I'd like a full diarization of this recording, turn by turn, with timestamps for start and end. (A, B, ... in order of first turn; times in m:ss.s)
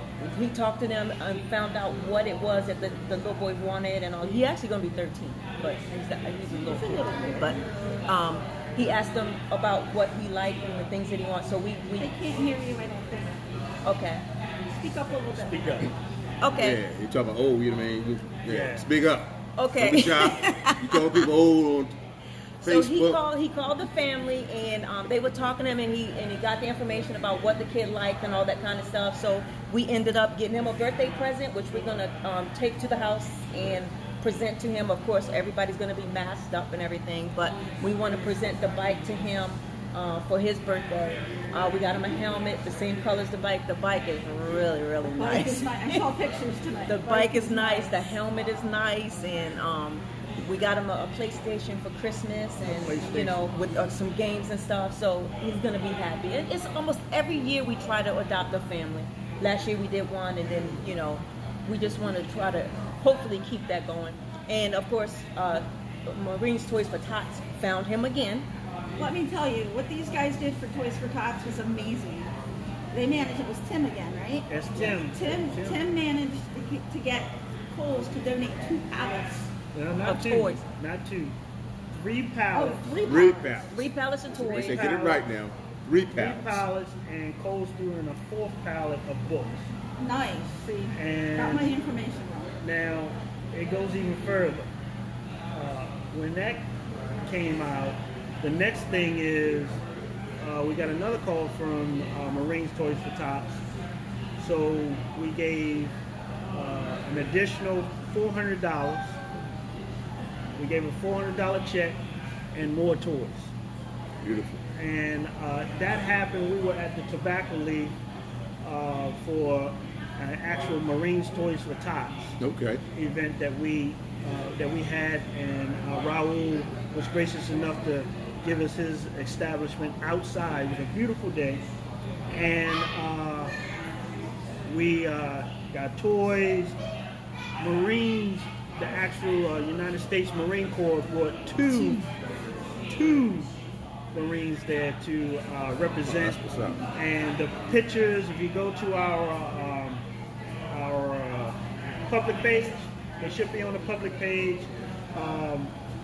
0:00.2-0:12.1 A
0:06.6-0:07.6 B
0:12.0-0:13.3 B
0:13.8-0:14.2 A
0:14.7-0:15.9 B
0:15.2-0:15.9 C
0:16.4-0:16.8 A
0:16.5-0:22.0 D
0:18.5-0:18.9 C
0:19.6-0:21.2 A
0:22.6-0:46.2 A
0:22.6-0:23.2 D
0:45.1-0:48.2 B
0:46.9-1:08.5 A
0:52.6-0:53.5 C
1:09.0-1:12.3 B
1:12.9-1:19.5 B
1:14.5-1:15.8 C
1:19.7-1:21.3 C
1:20.0-1:20.6 A
1:21.9-1:22.9 C
1:22.5-1:23.6 B
1:23.0-1:26.6 D
1:23.7-1:25.0 A
1:24.5-1:25.2 C
1:26.1-1:29.7 C
1:30.0-1:32.5 B
1:30.9-1:31.8 C
1:32.6-1:34.7 C
1:35.5-1:36.7 C
1:37.2-1:39.8 C
1:40.4-1:43.6 C
1:44.4-1:45.9 C
1:46.5-1:49.2 C
1:50.6-1:52.0 C
1:52.5-1:53.5 C
1:54.2-1:54.6 D
1:54.8-1:58.0 C
1:58.6-2:02.4 C
2:02.4-2:02.8 D
2:02.9-2:11.6 C
2:12.3-2:13.5 C
2:14.6-2:16.8 C
2:17.6-2:22.0 C
2:21.8-2:22.0 B
2:22.9-2:23.5 C
2:24.1-2:26.4 C
2:26.1-2:26.8 D
2:26.9-2:30.0 C
2:30.7-2:35.7 C